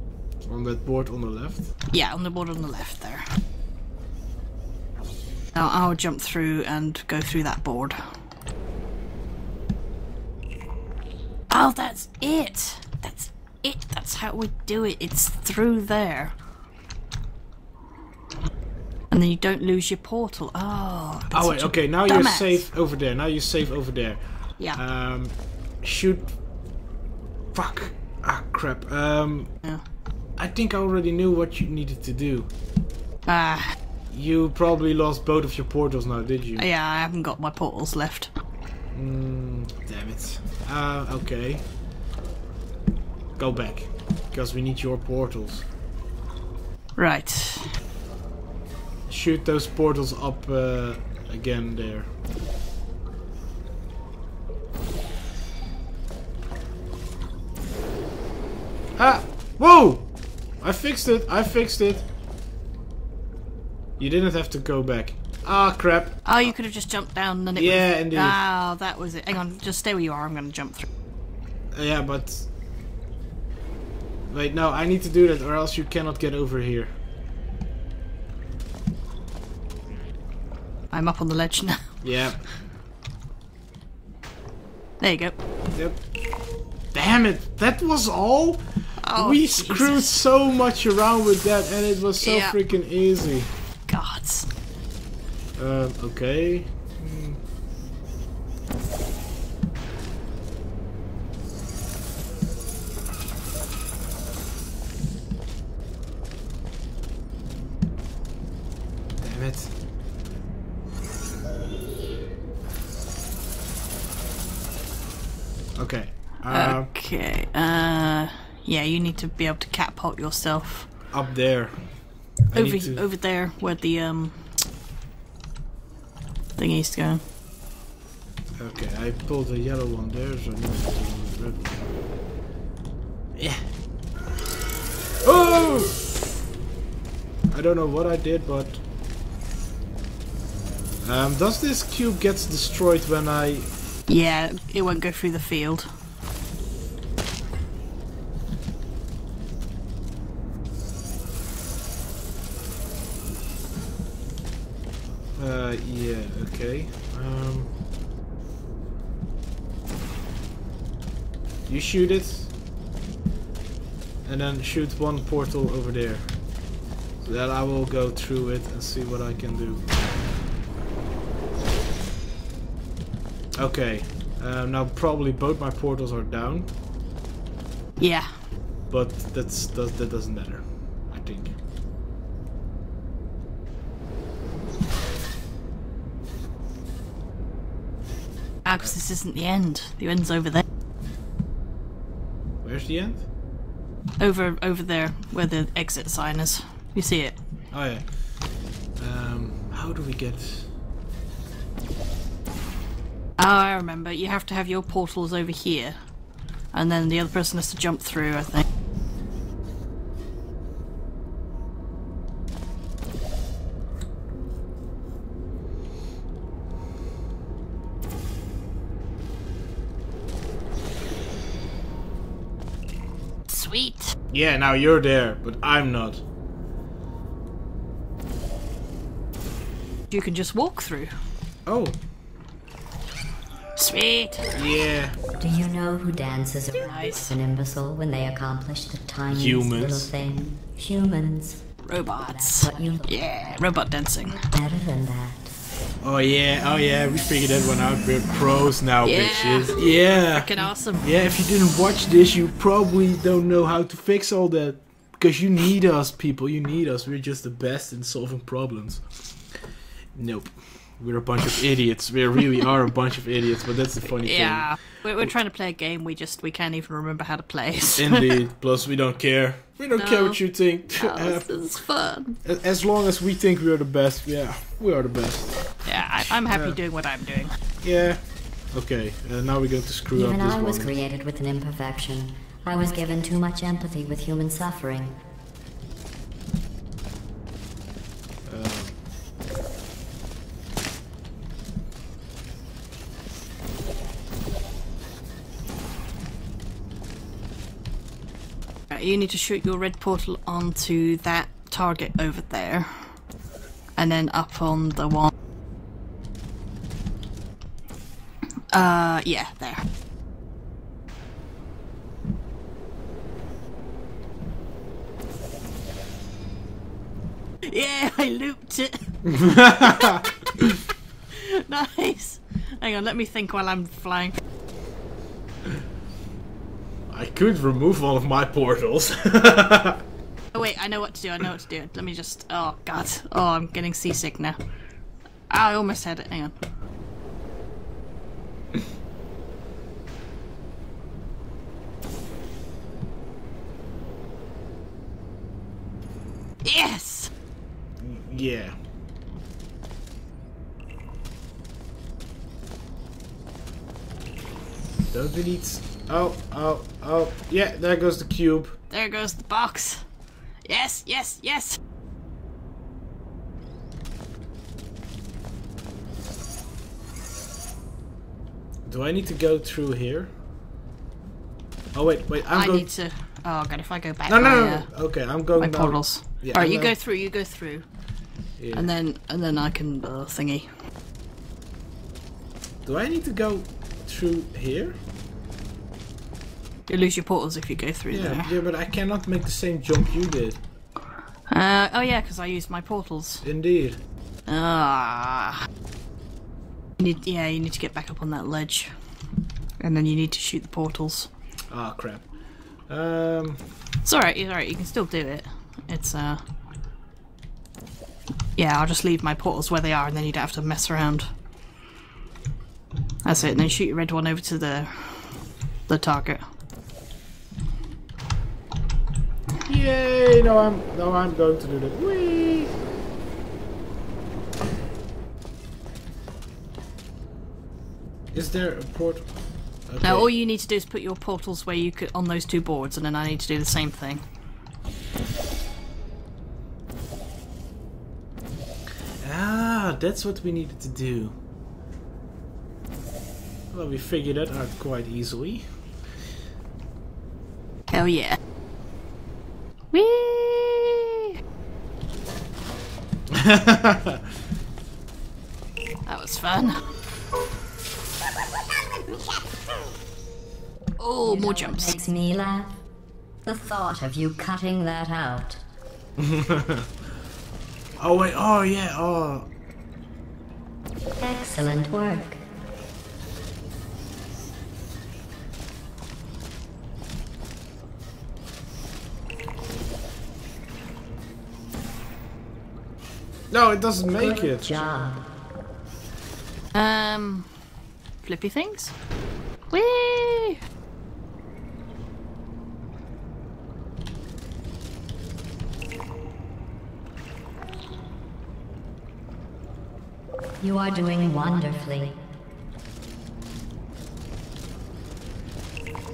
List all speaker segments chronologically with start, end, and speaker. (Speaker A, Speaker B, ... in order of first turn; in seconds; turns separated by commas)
Speaker A: 0.5-1.7, Speaker B: 1.9-3.2, Speaker B: 5.5-8.0, Speaker B: 11.5-16.3, Speaker B: 19.1-22.6, Speaker A: 21.3-26.4, Speaker A: 27.5-29.5, Speaker A: 30.4-32.5, Speaker B: 33.2-33.8, Speaker A: 34.1-36.6, Speaker B: 36.6-38.3, Speaker A: 38.9-41.7, Speaker A: 43.4-45.6, Speaker B: 47.0-47.7, Speaker A: 49.1-52.1, Speaker A: 59.0-62.0, Speaker A: 64.0-66.5, Speaker B: 66.2-70.9, Speaker A: 67.5-68.4, Speaker A: 71.7-72.5, Speaker A: 74.3-76.9, Speaker B: 80.9-82.0, Speaker A: 82.0-82.5, Speaker B: 85.0-85.4, Speaker A: 85.7-86.0, Speaker A: 86.9-93.5, Speaker B: 89.0-90.2, Speaker B: 92.2-92.6, Speaker B: 93.9-94.5, Speaker A: 95.6-97.4, Speaker A: 109.2-109.7, Speaker A: 115.8-116.9, Speaker B: 116.5-120.9, Speaker A: 121.1-123.0, Speaker B: 122.5-124.5, Speaker B: 126.5-127.2, Speaker A: 128.6-131.9, Speaker A: 133.3-133.6, Speaker A: 135.2-136.0, Speaker A: 137.5-138.8, Speaker A: 141.0-143.7, Speaker B: 144.1-145.9, Speaker A: 155.3-157.7, Speaker A: 161.7-162.5, Speaker A: 164.2-166.6, Speaker A: 167.2-169.8, Speaker A: 173.6-176.7, Speaker B: 178.0-178.3, Speaker A: 178.9-181.5, Speaker B: 188.6-190.6, Speaker A: 192.6-193.2, Speaker B: 194.2-197.4, Speaker A: 197.7-200.7, Speaker B: 203.4-205.9, Speaker B: 206.7-208.6, Speaker B: 223.5-224.2, Speaker A: 224.3-226.2, Speaker B: 230.1-231.1, Speaker A: 231.7-231.9, Speaker B: 233.8-234.5, Speaker A: 234.5-235.2, Speaker C: 235.4-243.5, Speaker B: 236.8-237.3, Speaker A: 239.3-240.1, Speaker B: 241.8-244.4, Speaker C: 244.4-245.5, Speaker A: 246.0-259.2, Speaker B: 249.0-251.0, Speaker A: 260.1-265.3, Speaker B: 264.2-268.3, Speaker A: 268.0-271.8, Speaker B: 269.9-272.4, Speaker A: 272.4-276.8, Speaker B: 275.8-277.6, Speaker A: 277.8-280.9, Speaker C: 280.1-285.2, Speaker A: 288.4-289.0, Speaker B: 298.9-303.2, Speaker B: 303.9-305.3, Speaker B: 308.7-309.8, Speaker B: 317.6-320.1, Speaker A: 319.2-320.2, Speaker B: 321.3-324.4, Speaker A: 327.1-330.0, Speaker B: 330.5-334.6, Speaker B: 335.5-336.5, Speaker B: 346.6-347.3, Speaker A: 348.0-348.7, Speaker A: 355.1-358.8, Speaker B: 358.9-360.0, Speaker B: 360.6-361.8, Speaker A: 368.8-370.3, Speaker A: 371.9-372.9, Speaker B: 372.5-377.8, Speaker A: 374.3-376.9, Speaker A: 378.6-378.9, Speaker B: 378.7-380.7, Speaker A: 382.8-384.9, Speaker B: 386.9-388.5, Speaker A: 388.1-390.6, Speaker B: 391.5-393.4, Speaker A: 393.4-394.0, Speaker B: 394.5-395.7, Speaker B: 397.0-398.9, Speaker B: 399.8-401.3, Speaker A: 401.7-402.3, Speaker A: 402.9-403.6, Speaker B: 404.0-406.4, Speaker B: 408.6-411.2, Speaker B: 413.2-416.4, Speaker A: 413.3-413.8, Speaker A: 419.6-422.7, Speaker A: 428.3-429.3, Speaker A: 429.9-430.3, Speaker B: 430.0-434.2, Speaker A: 439.2-441.3, Speaker A: 443.7-445.6, Speaker B: 447.9-448.4, Speaker B: 449.9-451.3, Speaker A: 453.3-454.2, Speaker B: 456.1-456.8, Speaker B: 461.0-461.9, Speaker C: 461.2-462.8, Speaker C: 463.4-465.6, Speaker A: 466.2-466.9, Speaker A: 468.0-469.5, Speaker C: 471.2-472.4, Speaker A: 483.5-484.7, Speaker C: 484.2-485.3, Speaker B: 486.7-487.5, Speaker B: 488.2-488.9, Speaker B: 489.7-490.6, Speaker C: 500.6-502.2